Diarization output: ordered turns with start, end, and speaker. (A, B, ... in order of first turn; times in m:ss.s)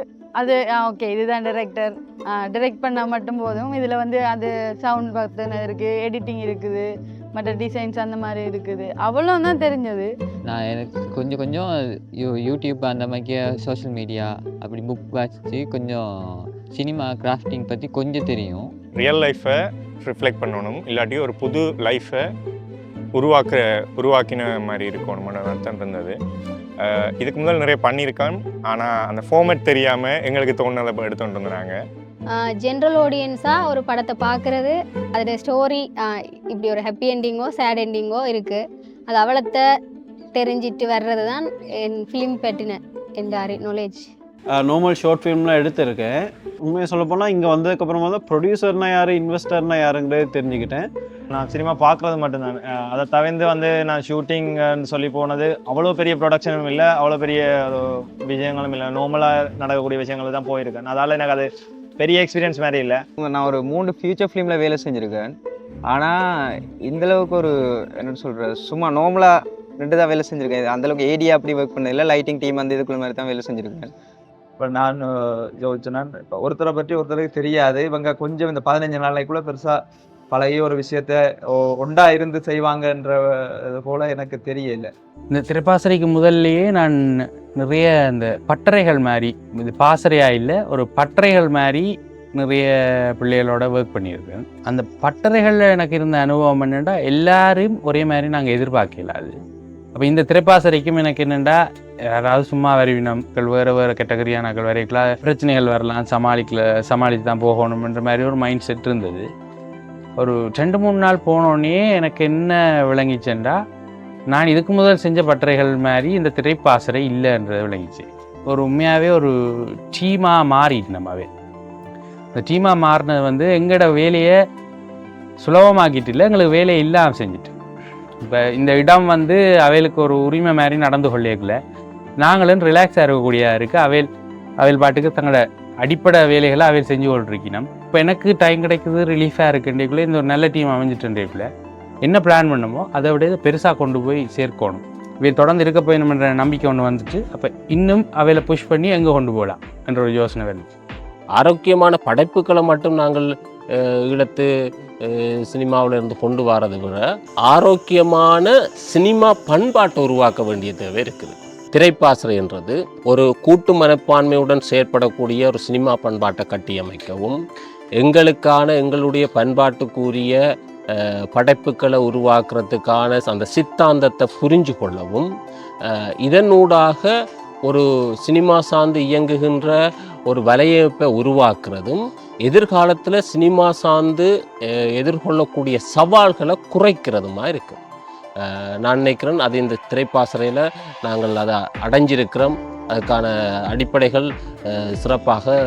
0:00.4-0:01.9 A
0:02.5-0:10.1 A
0:10.4-0:18.7 B
0:19.0-0:22.2 C
0:23.2-0:26.1 C
0:27.2-0:31.7 C
0:32.3-0:39.6 D
0:40.3-0:44.1 D
0:44.6-0:50.8 E
0:51.3-1:03.0 F
1:03.2-1:05.3 G
1:05.9-1:06.2 G
1:06.8-1:13.9 G
1:14.6-1:19.8 H
1:20.3-1:24.9 H
1:25.3-1:39.4 I
1:39.9-1:41.6 I
1:42.1-1:49.3 I
1:50.2-1:53.6 I
1:54.3-1:59.3 I
1:59.9-2:01.3 I
2:02.3-2:04.3 I
2:05.4-2:07.5 I
2:08.2-2:11.6 I
2:12.2-2:14.1 I
2:14.6-2:21.5 I
2:22.0-2:30.7 I
2:31.3-2:34.5 J
2:35.0-2:47.4 J
2:48.0-2:50.4 J
2:51.0-2:55.3 J
2:55.9-2:57.1 J
2:57.6-2:59.8 J
3:00.3-3:07.8 J
3:08.4-3:15.5 J